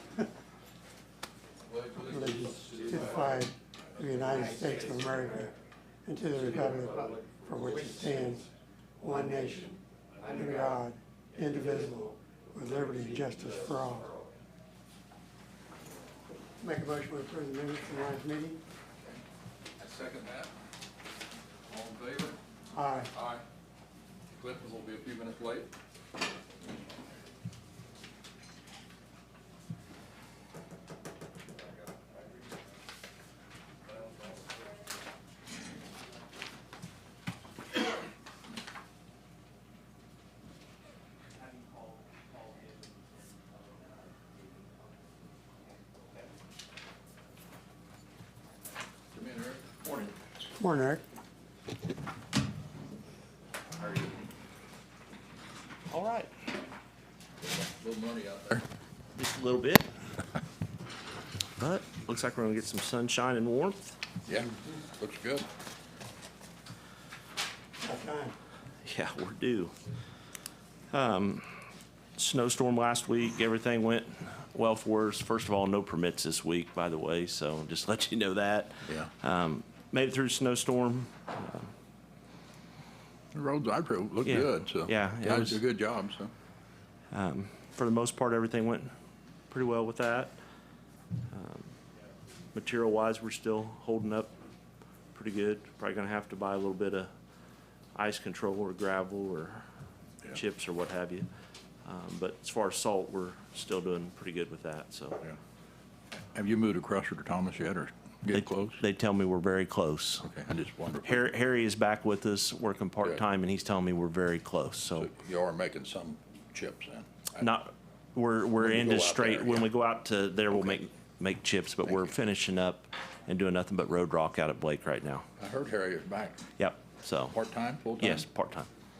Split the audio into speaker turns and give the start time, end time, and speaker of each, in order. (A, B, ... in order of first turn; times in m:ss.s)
0:01.7-0:02.9 A
0:02.0-0:05.5 B
0:06.0-0:08.4 B
0:09.0-0:14.1 B
0:16.6-0:18.6 B
0:19.8-0:20.5 A
0:21.7-0:22.4 A
0:22.7-0:23.1 B
0:23.1-0:23.4 A
0:24.4-0:25.7 A
0:41.5-0:44.9 C
0:45.8-0:46.2 C
0:49.1-0:49.7 A
0:49.8-0:50.1 C
0:50.6-0:51.0 B
0:55.9-0:56.3 C
0:57.6-0:58.6 A
0:59.2-0:59.9 C
1:01.6-1:04.0 C
1:04.3-1:05.5 A
1:07.8-1:08.3 B
1:08.8-1:09.7 C
1:10.9-1:11.5 C
1:12.2-1:21.7 C
1:23.3-1:26.3 A
1:24.2-1:25.6 C
1:27.1-1:28.9 C
1:29.5-1:30.3 C
1:31.3-1:31.7 C
1:32.5-1:34.3 C
1:35.1-1:37.1 C
1:37.9-1:39.6 C
1:40.3-1:41.2 C
1:41.8-1:45.4 C
1:46.3-1:48.8 A
1:48.3-1:50.3 C
1:50.2-1:51.3 A
1:51.0-1:55.1 C
1:55.0-1:57.5 A
1:57.4-2:05.3 C
1:58.6-1:59.7 A
2:00.5-2:00.8 A
2:05.4-2:06.4 A
2:06.6-2:07.3 C
2:07.3-2:08.2 A
2:08.0-2:08.7 C